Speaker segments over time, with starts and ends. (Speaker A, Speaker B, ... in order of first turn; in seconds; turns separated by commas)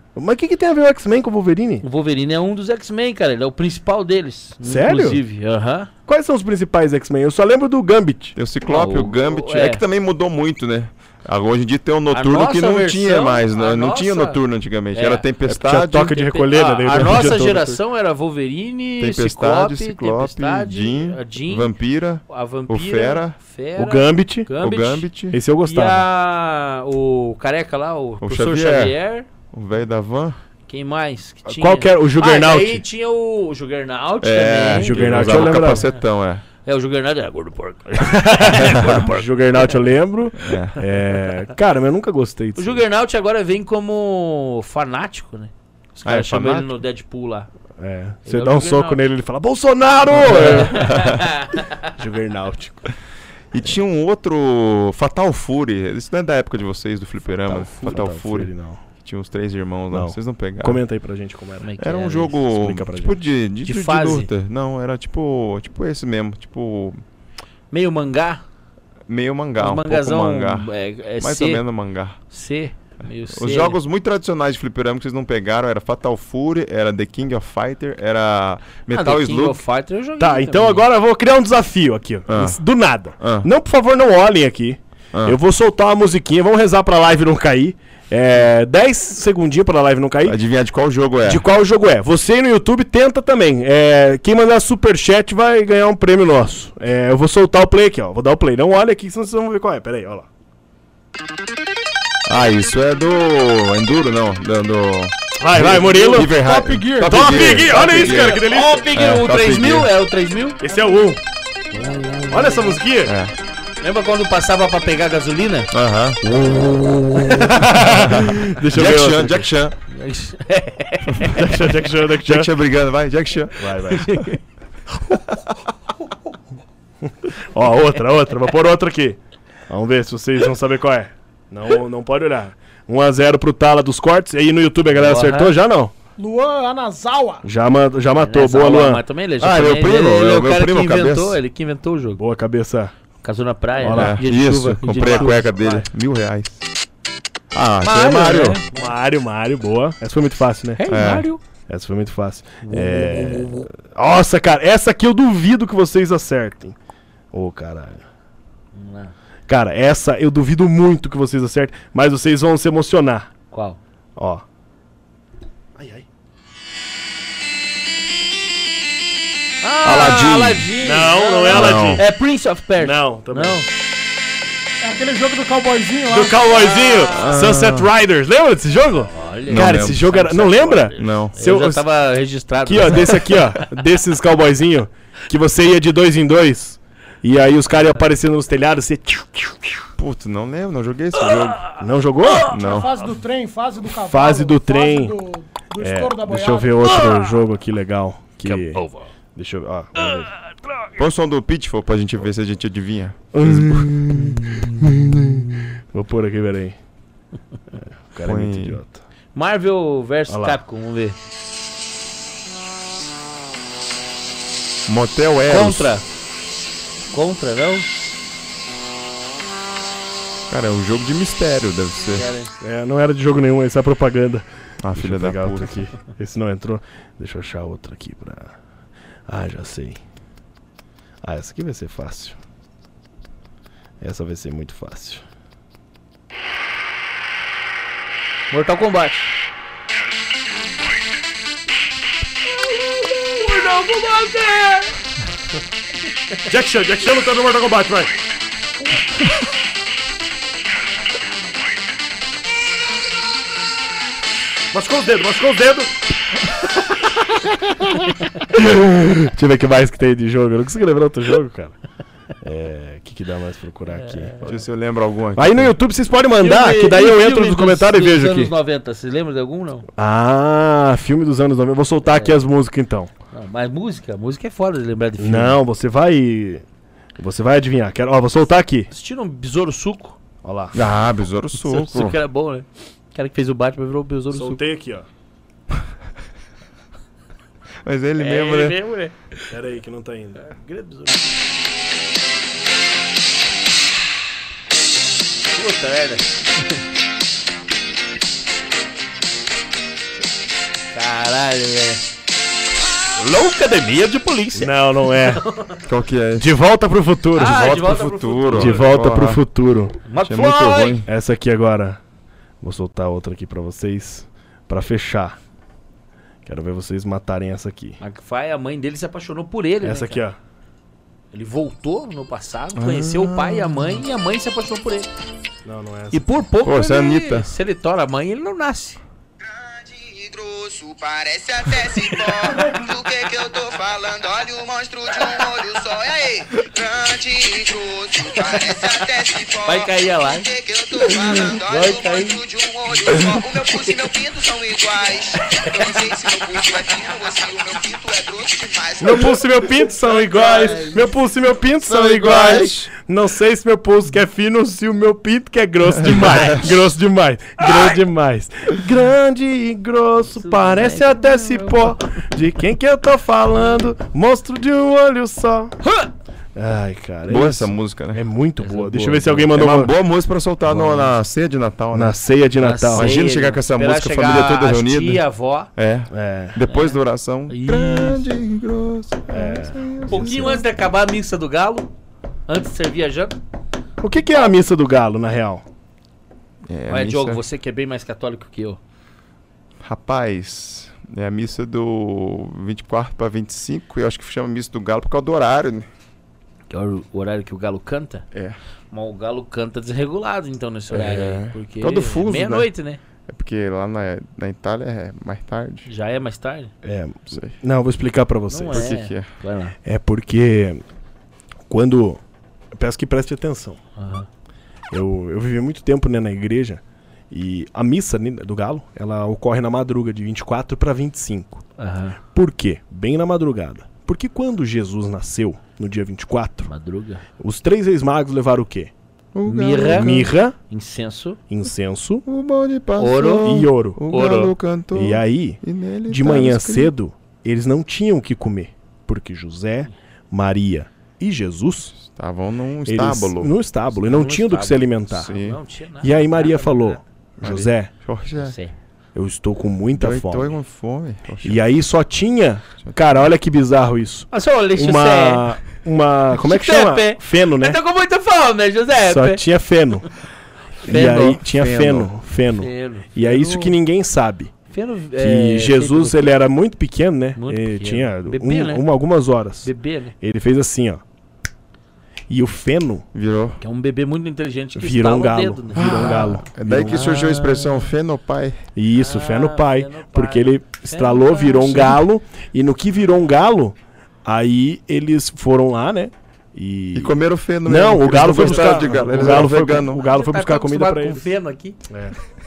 Speaker A: 0.1-1.8, Speaker B: 1.8-5.9, Speaker A: 4.6-5.2, Speaker A: 6.1-8.4, Speaker C: 8.3-16.2, Speaker B: 8.7-9.8, Speaker B: 12.1-14.4, Speaker B: 14.9-15.2, Speaker A: 15.4-17.8, Speaker B: 16.1-21.7, Speaker C: 19.0-23.4, Speaker B: 22.3-25.1, Speaker A: 23.8-24.5, Speaker C: 24.6-25.4, Speaker A: 25.3-26.1, Speaker B: 25.6-29.3, Speaker C: 28.2-28.9, Speaker C: 29.5-30.4, Speaker B: 30.7-36.0, Speaker A: 31.4-32.8, Speaker C: 34.2-36.4, Speaker A: 34.7-35.9, Speaker B: 36.6-39.8, Speaker A: 38.0-42.8, Speaker C: 40.4-40.8, Speaker B: 42.6-47.5, Speaker C: 46.0-46.8, Speaker A: 47.8-51.1, Speaker B: 48.2-49.0, Speaker C: 50.2-51.2, Speaker B: 50.2-51.9, Speaker A: 51.8-52.9, Speaker C: 53.5-60.8, Speaker A: 57.3-58.8, Speaker A: 59.9-61.7, Speaker B: 61.6-62.4, Speaker C: 61.8-67.0, Speaker A: 62.5-63.2, Speaker B: 63.6-64.3, Speaker B: 67.7-68.4, Speaker C: 69.1-72.2, Speaker B: 69.6-71.6, Speaker B: 72.3-73.8, Speaker C: 73.3-79.6, Speaker B: 78.9-80.9, Speaker A: 80.2-90.4, Speaker C: 82.3-82.6, Speaker C: 83.2-83.5, Speaker C: 90.2-91.4, Speaker A: 91.2-100.3, Speaker C: 102.3-109.9, Speaker A: 105.4-108.8, Speaker D: 106.1-107.3, Speaker B: 107.7-110.6, Speaker A: 110.6-111.2, Speaker A: 112.3-113.1, Speaker C: 113.0-113.3, Speaker B: 113.8-115.7, Speaker C: 115.7-119.7, Speaker A: 117.2-119.5, Speaker B: 119.9-121.5, Speaker A: 121.2-122.5, Speaker C: 122.2-123.7, Speaker A: 123.5-124.1, Speaker B: 123.9-124.4, Speaker A: 127.2-135.9, Speaker B: 134.9-135.5, Speaker D: 136.2-137.4, Speaker A: 137.4-139.0, Speaker B: 138.2-142.2, Speaker C: 139.4-141.4, Speaker A: 142.2-142.9, Speaker B: 143.2-145.8, Speaker A: 143.8-144.2, Speaker C: 143.9-146.6, Speaker A: 145.0-145.3, Speaker C: 147.5-148.6, Speaker B: 147.8-148.7, Speaker A: 148.7-150.8, Speaker B: 150.8-151.4, Speaker C: 150.9-151.3, Speaker A: 151.7-156.8, Speaker B: 152.6-153.7, Speaker A: 157.3-158.0, Speaker B: 158.7-159.1, Speaker A: 159.5-163.3, Speaker B: 163.5-163.8, Speaker A: 164.2-164.4, Speaker A: 165.7-166.1, Speaker B: 169.6-173.7, Speaker C: 169.8-170.7, Speaker A: 170.8-172.0, Speaker C: 171.5-172.0, Speaker A: 172.8-173.6, Speaker D: 174.8-176.8, Speaker A: 176.1-181.8, Speaker B: 176.5-177.3, Speaker C: 177.1-177.9, Speaker B: 179.1-183.4, Speaker C: 179.5-180.0, Speaker C: 181.0-181.4, Speaker A: 182.6-189.8, Speaker C: 190.0-191.7, Speaker B: 191.2-191.7, Speaker A: 191.8-192.5, Speaker B: 192.2-192.8, Speaker C: 192.5-192.9, Speaker D: 192.5-197.0, Speaker A: 194.0-195.2, Speaker A: 195.8-198.8, Speaker B: 196.8-197.4, Speaker B: 198.4-199.1, Speaker A: 199.3-200.3, Speaker B: 199.9-201.0, Speaker C: 201.0-205.4, Speaker A: 203.3-206.8, Speaker A: 207.7-209.0, Speaker C: 208.2-208.8, Speaker B: 209.3-211.2, Speaker A: 210.3-210.6, Speaker C: 214.9-215.9, Speaker B: 215.5-216.0, Speaker B: 217.1-217.9, Speaker C: 220.5-222.3, Speaker B: 222.1-222.5, Speaker A: 222.6-228.5, Speaker C: 224.8-225.8, Speaker A: 229.3-230.0, Speaker A: 231.2-232.4, Speaker A: 234.0-235.2, Speaker B: 238.5-239.2, Speaker B: 242.7-244.9, Speaker A: 246.5-248.1, Speaker A: 254.7-256.1, Speaker A: 256.9-261.8, Speaker A: 262.4-264.4, Speaker B: 263.9-264.6, Speaker C: 264.4-265.7, Speaker A: 265.3-268.5, Speaker B: 266.4-269.9, Speaker A: 270.0-273.1, Speaker B: 272.0-272.4, Speaker B: 273.3-275.6, Speaker A: 275.2-276.6, Speaker A: 277.2-278.9, Speaker B: 278.9-280.2, Speaker A: 280.4-280.8, Speaker C: 280.7-282.2, Speaker B: 281.6-284.6, Speaker A: 284.3-285.1, Speaker C: 287.8-288.8, Speaker B: 288.2-289.5, Speaker A: 289.5-290.4, Speaker B: 290.4-291.3, Speaker B: 295.5-296.8, Speaker B: 300.9-302.0, Speaker B: 303.2-305.8, Speaker A: 304.5-305.4, Speaker C: 305.8-306.5, Speaker A: 306.4-307.7, Speaker B: 307.4-308.9, Speaker C: 307.4-309.4, Speaker A: 308.5-310.0, Speaker B: 310.0-311.0, Speaker C: 310.2-311.1, Speaker A: 311.1-312.0, Speaker A: 312.6-315.4, Speaker A: 316.4-318.0, Speaker B: 318.0-320.2, Speaker A: 319.8-320.4, Speaker B: 321.3-325.1, Speaker C: 322.8-324.0, Speaker A: 325.6-326.2, Speaker B: 326.1-329.0, Speaker C: 326.6-327.5, Speaker E: 329.4-349.7, Speaker B: 338.4-338.6, Speaker B: 339.6-340.5, Speaker B: 341.5-342.4, Speaker B: 345.4-346.0, Speaker A: 349.0-365.7, Speaker B: 350.0-351.1, Speaker E: 350.3-350.8, Speaker C: 351.9-352.9, Speaker B: 356.2-356.6, Speaker B: 357.6-357.9, Speaker B: 360.3-362.3, Speaker B: 365.8-366.1, Speaker A: 366.5-369.9, Speaker C: 367.3-368.2, Speaker B: 368.6-369.5, Speaker C: 369.5-372.2, Speaker A: 370.7-371.1, Speaker A: 371.9-373.2, Speaker B: 372.6-375.7, Speaker C: 372.9-375.2, Speaker C: 375.7-380.7, Speaker A: 376.1-376.6, Speaker B: 376.6-378.3, Speaker A: 379.3-380.6, Speaker B: 380.1-381.9, Speaker B: 382.5-383.4, Speaker A: 384.0-385.6, Speaker C: 386.7-387.4, Speaker B: 386.9-388.8, Speaker C: 389.8-395.9, Speaker B: 396.7-398.2, Speaker B: 398.9-403.0, Speaker C: 400.9-402.7, Speaker C: 403.3-405.9, Speaker B: 405.9-406.7, Speaker A: 406.8-408.9, Speaker C: 407.3-407.6, Speaker B: 408.5-409.8, Speaker C: 408.7-409.3, Speaker A: 409.8-410.8, Speaker A: 411.7-412.2, Speaker A: 412.7-413.8, Speaker B: 414.0-414.3, Speaker A: 414.9-421.6, Speaker B: 421.8-422.2, Speaker A: 422.3-426.7, Speaker B: 426.6-427.2, Speaker A: 427.4-428.9, Speaker C: 429.3-430.3, Speaker B: 429.4-431.4, Speaker A: 429.9-430.5, Speaker A: 431.5-432.2, Speaker C: 432.2-436.9, Speaker B: 433.0-434.5, Speaker A: 433.4-434.0, Speaker A: 434.9-441.9, Speaker C: 441.9-443.5, Speaker A: 442.9-445.3, Speaker B: 443.9-447.0, Speaker C: 445.1-445.6, Speaker A: 446.0-447.9, Speaker C: 447.4-448.6, Speaker B: 448.4-448.7, Speaker A: 449.1-450.6, Speaker C: 449.9-451.6, Speaker A: 451.4-457.8, Speaker B: 454.3-455.6, Speaker B: 456.3-459.4, Speaker A: 459.0-460.1, Speaker B: 460.8-461.4, Speaker A: 460.8-464.5, Speaker C: 461.4-462.1, Speaker B: 462.6-463.7, Speaker B: 464.7-466.3, Speaker A: 465.2-471.0, Speaker B: 467.4-468.9, Speaker B: 469.6-470.1, Speaker A: 472.3-473.0, Speaker C: 473.1-473.6, Speaker B: 473.6-477.9, Speaker A: 474.7-477.0, Speaker C: 475.7-478.6, Speaker A: 478.8-491.2, Speaker B: 479.0-482.0, Speaker C: 486.9-490.0, Speaker B: 488.2-491.8, Speaker A: 491.9-492.1